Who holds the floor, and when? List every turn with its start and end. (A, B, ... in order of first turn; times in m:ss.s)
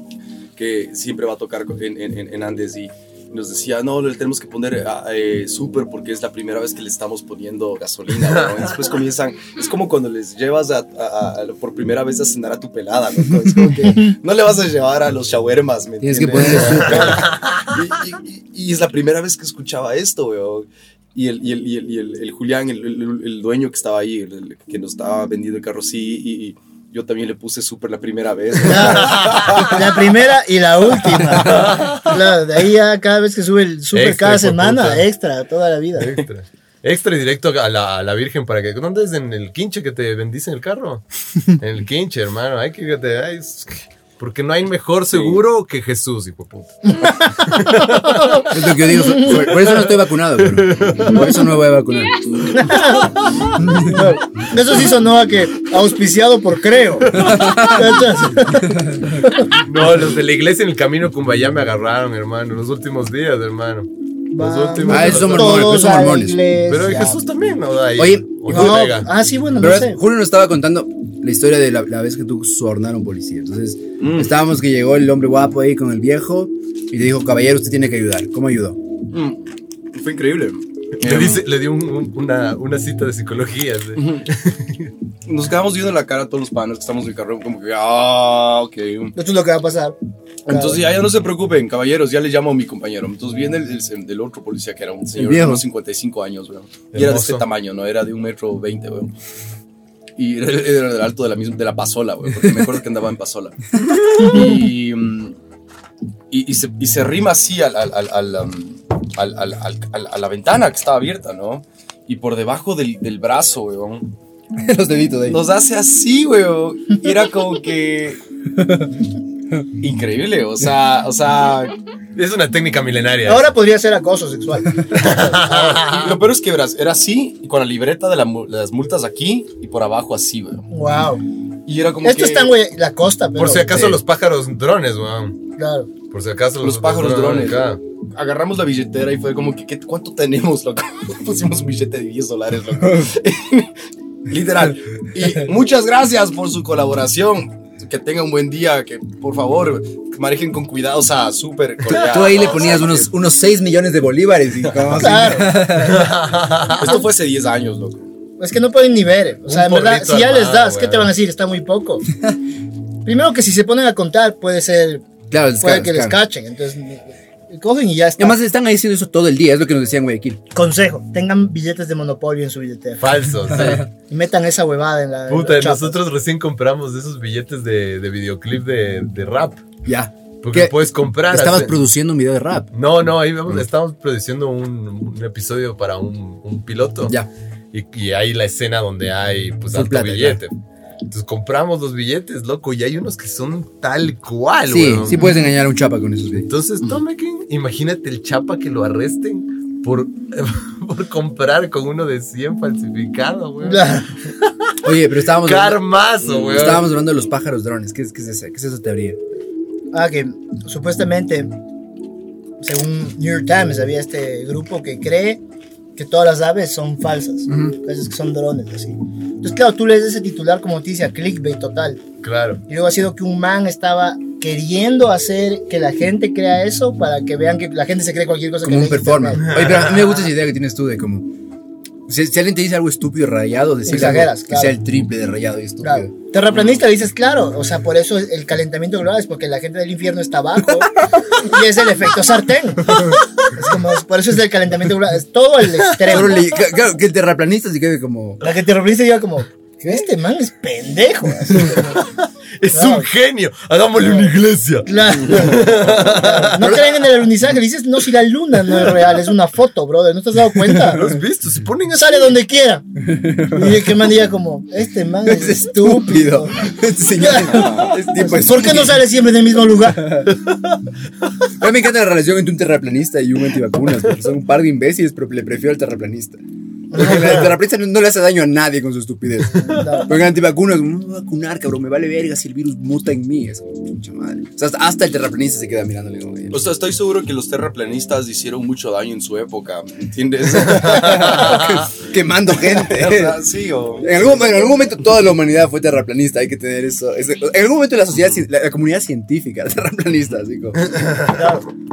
0:00.6-0:29.8 A
0:16.0-0:17.3 B
0:16.8-0:17.7 C
0:28.6-0:36.2 D
0:28.8-0:29.8 C
0:31.4-0:32.2 C
0:33.9-0:35.0 C
0:36.0-0:48.6 C
0:45.1-0:45.4 A
0:47.0-0:49.4 D
0:48.4-0:52.4 B
0:49.3-0:51.3 C
0:52.5-0:59.6 D
0:53.6-0:53.9 B
0:57.2-0:57.6 C
0:57.2-0:57.9 B
0:59.6-1:05.8 C
1:04.3-1:07.2 D
1:04.9-1:06.4 B
1:06.7-1:09.1 C
1:08.0-1:08.8 B
1:08.5-1:10.0 D
1:09.6-1:18.8 B
1:14.0-1:14.4 A
1:19.1-1:21.5 A
1:21.0-1:24.9 C
1:24.0-1:24.3 A
1:25.2-1:29.2 A
1:29.2-1:30.8 D
1:30.5-1:39.1 A
1:35.2-1:35.6 B
1:36.9-1:37.4 C
1:40.2-1:45.4 A
1:46.3-1:54.1 A
1:54.6-1:55.4 B
1:55.3-1:58.2 A
1:59.8-2:01.8 A
2:02.2-2:03.5 C
2:03.3-2:05.8 D
2:04.9-2:06.2 C
2:05.8-2:10.7 A
2:10.7-2:11.2 D
2:11.7-2:12.6 A
2:12.0-2:14.0 D
2:13.4-2:15.4 C
2:15.6-2:15.9 D
2:16.1-2:17.8 C
2:16.6-2:23.7 A
2:24.3-2:33.1 A
2:32.0-2:36.1 B
2:34.6-2:35.0 A
2:35.0-2:35.7 D
2:35.7-2:37.0 C
2:36.7-2:38.0 A
2:38.4-2:42.0 D
2:39.5-2:41.1 C
2:43.0-2:45.0 D
2:45.3-2:46.2 B
2:45.6-2:48.4 D
2:48.2-2:50.4 B
2:50.5-2:53.0 D
2:53.0-2:53.9 C
2:54.1-2:56.0 D
2:55.3-2:59.6 C
2:59.8-3:02.7 B
3:00.4-3:01.8 C
3:02.7-3:07.2 C
3:07.7-3:10.5 C
3:09.7-3:10.4 B
3:11.1-3:15.2 C
3:14.7-3:16.5 B
3:16.5-3:23.9 C
3:23.6-3:24.1 D
3:24.8-3:29.2 B
3:25.4-3:27.0 C
3:29.9-3:31.5 D
3:32.6-3:35.4 D
3:36.0-3:42.0 D
3:42.2-3:42.6 C
3:42.7-3:49.5 D
3:48.6-3:51.3 B
3:49.5-3:49.9 C
3:52.1-3:56.1 B
3:53.8-3:54.8 D
3:55.8-4:06.4 D
4:06.0-4:06.2 C
4:06.0-4:08.4 B
4:08.4-4:12.1 D
4:12.6-4:17.1 C
4:12.7-4:13.1 D
4:14.9-4:21.0 D
4:20.8-4:22.4 C
4:21.9-4:22.8 D
4:23.1-4:23.9 B
4:23.4-4:30.3 D
4:25.2-4:29.0 B
4:31.6-4:36.4 B
4:36.9-4:37.6 D
4:36.9-4:46.6 B
4:39.6-4:40.1 D
4:46.5-4:51.7 A
4:50.6-4:53.4 B
4:51.0-4:51.8 C
4:52.7-4:54.2 A
4:54.0-5:01.0 B
5:01.3-5:01.7 D